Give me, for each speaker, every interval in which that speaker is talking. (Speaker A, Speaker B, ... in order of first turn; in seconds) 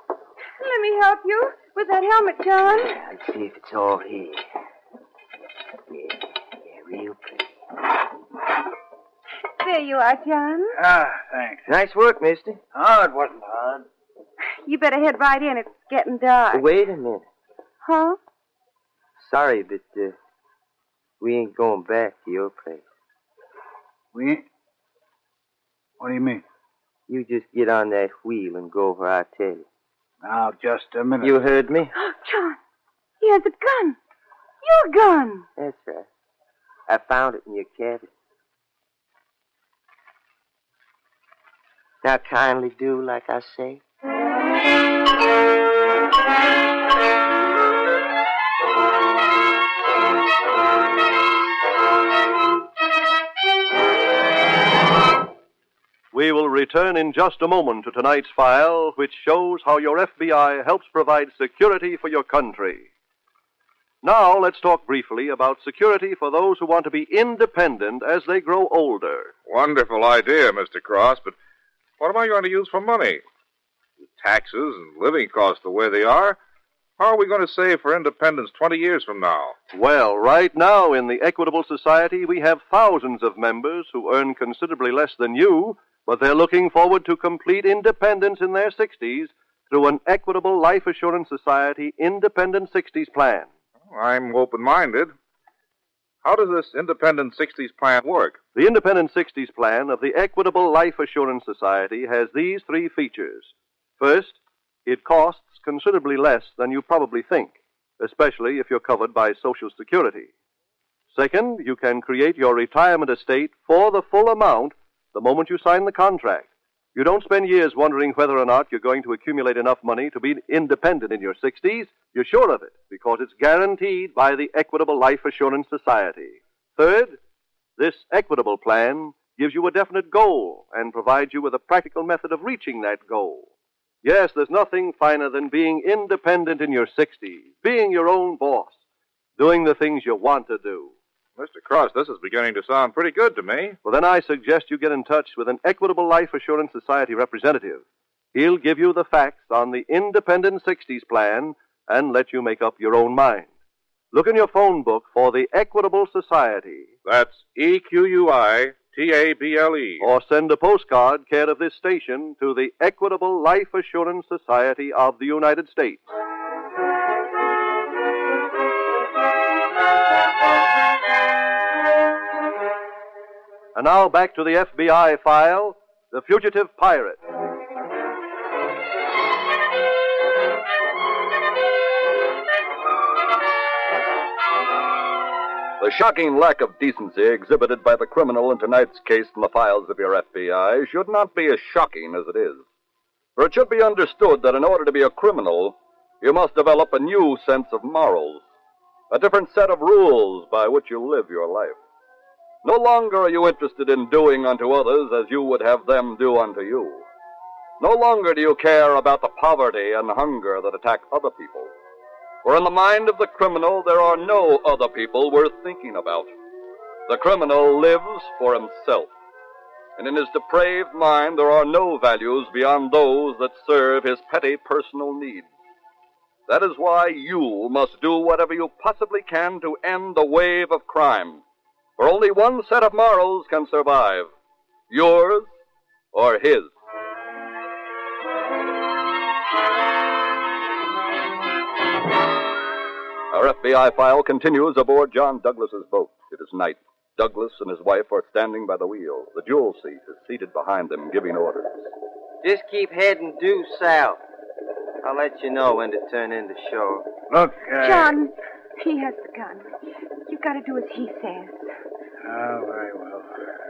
Speaker A: 0.6-3.0, 9.6-10.8, 14.6-16.6, 17.8-18.2, 31.9-32.6, 33.2-34.0, 34.6-35.5, 257.8-259.7, 260.3-261.6
Speaker B: 2.7-4.4, 5.9-7.5, 11.7-12.6, 16.5-17.2, 19.2-20.2, 21.2-22.8, 27.1-29.7, 31.2-31.9, 35.6-36.1, 36.9-38.1, 42.0-43.8, 252.4-254.2, 255.0-257.0
Speaker C: 10.7-11.6, 12.7-13.8, 24.1-24.4, 26.0-26.4, 30.2-31.4, 257.3-258.1, 262.2-263.3
Speaker D: 56.1-62.9, 64.0-69.3, 79.7-93.5, 98.5-110.3, 111.1-127.2, 127.8-133.5, 134.0-138.8, 139.4-140.9, 143.8-147.8, 148.3-153.5, 154.1-156.9, 160.0-166.0, 173.7-177.2
Speaker E: 69.5-71.3, 72.0-73.2, 74.1-76.4, 77.0-79.5, 93.9-95.1, 96.2-98.4, 141.4-143.8, 157.0-160.1
Speaker F: 185.8-192.6, 193.3-198.4, 199.1-201.8, 202.6-207.1, 207.8-211.7, 212.4-216.3, 217.1-219.1, 220.0-225.5, 226.5-231.4, 232.0-234.3, 234.9-235.5, 236.1-236.7, 243.3-251.8